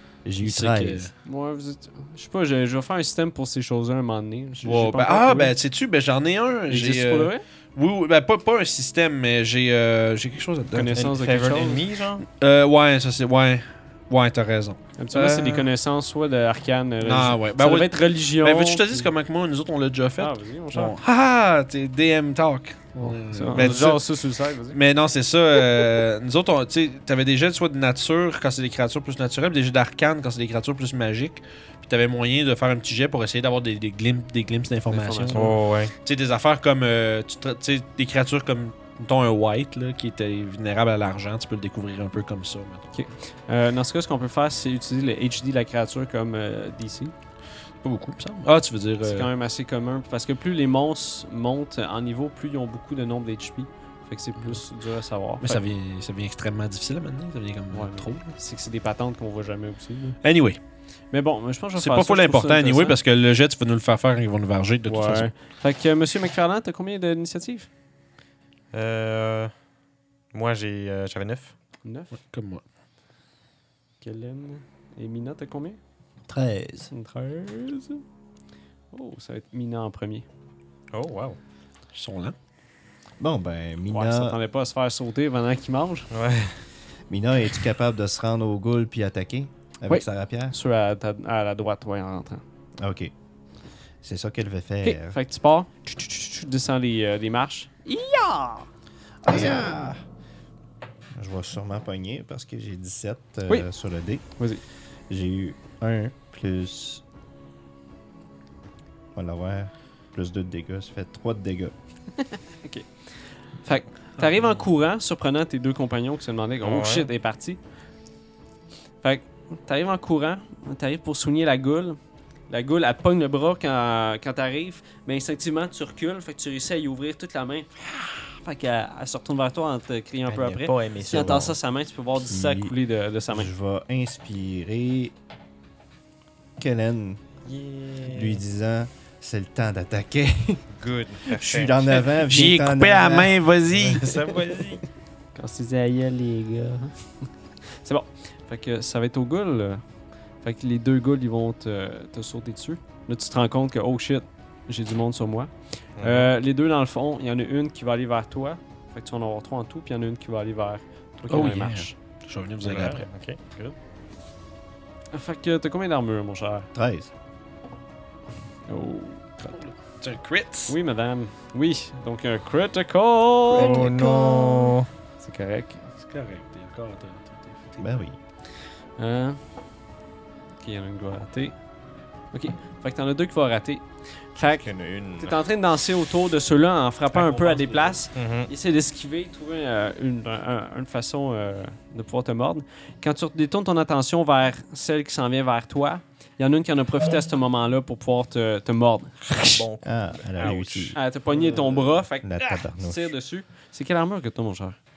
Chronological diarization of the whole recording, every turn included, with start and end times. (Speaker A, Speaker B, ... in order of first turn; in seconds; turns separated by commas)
Speaker A: 0.2-1.1, Speaker B: 0.4-1.1, Speaker C: 1.2-5.6, Speaker B: 4.6-11.1, Speaker C: 6.7-7.4, Speaker C: 10.7-11.8, Speaker D: 11.0-12.2, Speaker B: 12.2-15.7, Speaker C: 15.0-19.1, Speaker B: 17.0-24.1, Speaker C: 20.2-20.9, Speaker C: 23.3-24.8, Speaker B: 24.7-42.9, Speaker C: 34.9-35.6, Speaker D: 35.3-35.9, Speaker C: 42.9-47.1, Speaker B: 47.8-49.3, Speaker C: 49.0-55.6, Speaker B: 55.4-58.2, Speaker C: 57.7-60.2, Speaker B: 60.2-60.6, Speaker C: 61.1-63.0, Speaker B: 61.8-65.3, Speaker C: 64.9-67.7, Speaker D: 68.7-69.5, Speaker D: 70.3-71.5, Speaker C: 71.8-72.1, Speaker B: 72.1-72.6, Speaker C: 74.0-75.8, Speaker A: 76.3-76.9, Speaker C: 76.9-78.0, Speaker C: 78.9-80.3, Speaker D: 80.9-81.4, Speaker B: 81.9-82.4, Speaker A: 83.2-84.4, Speaker C: 83.9-86.1, Speaker D: 86.1-86.5, Speaker A: 87.1-90.5, Speaker C: 89.9-92.4, Speaker A: 92.8-93.1, Speaker A: 94.0-95.2, Speaker C: 94.8-98.7, Speaker A: 99.2-100.0, Speaker C: 99.3-99.7, Speaker A: 101.2-104.2, Speaker A: 105.1-107.0, Speaker A: 109.2-111.7, Speaker C: 112.6-112.9, Speaker C: 113.6-117.6, Speaker D: 116.6-117.1, Speaker C: 119.0-133.5, Speaker D: 130.3-131.6, Speaker A: 132.3-132.7, Speaker A: 133.3-135.1, Speaker A: 136.6-137.2, Speaker D: 137.4-138.4, Speaker A: 138.1-140.7, Speaker D: 140.8-142.0, Speaker A: 141.3-143.4, Speaker B: 142.2-144.1, Speaker D: 143.7-144.8, Speaker C: 145.3-147.3, Speaker C: 147.8-149.8, Speaker C: 150.4-161.9, Speaker D: 156.0-156.3, Speaker B: 161.3-163.1, Speaker A: 161.3-161.9, Speaker D: 162.6-163.8, Speaker C: 165.1-166.7, Speaker A: 166.7-167.1, Speaker C: 168.7-169.5, Speaker B: 169.4-170.8, Speaker C: 170.7-173.9, Speaker A: 173.5-174.8, Speaker D: 173.5-174.9, Speaker C: 175.2-175.8, Speaker B: 176.0-178.0, Speaker A: 177.8-178.2, Speaker C: 179.0-179.4, Speaker C: 180.6-181.6, Speaker C: 182.3-199.7, Speaker D: 184.6-185.4, Speaker B: 187.1-188.0, Speaker D: 188.1-188.5, Speaker D: 199.4-201.0, Speaker A: 199.8-201.0, Speaker B: 200.4-200.7, Speaker C: 200.9-204.8, Speaker B: 201.3-201.8, Speaker A: 202.2-203.1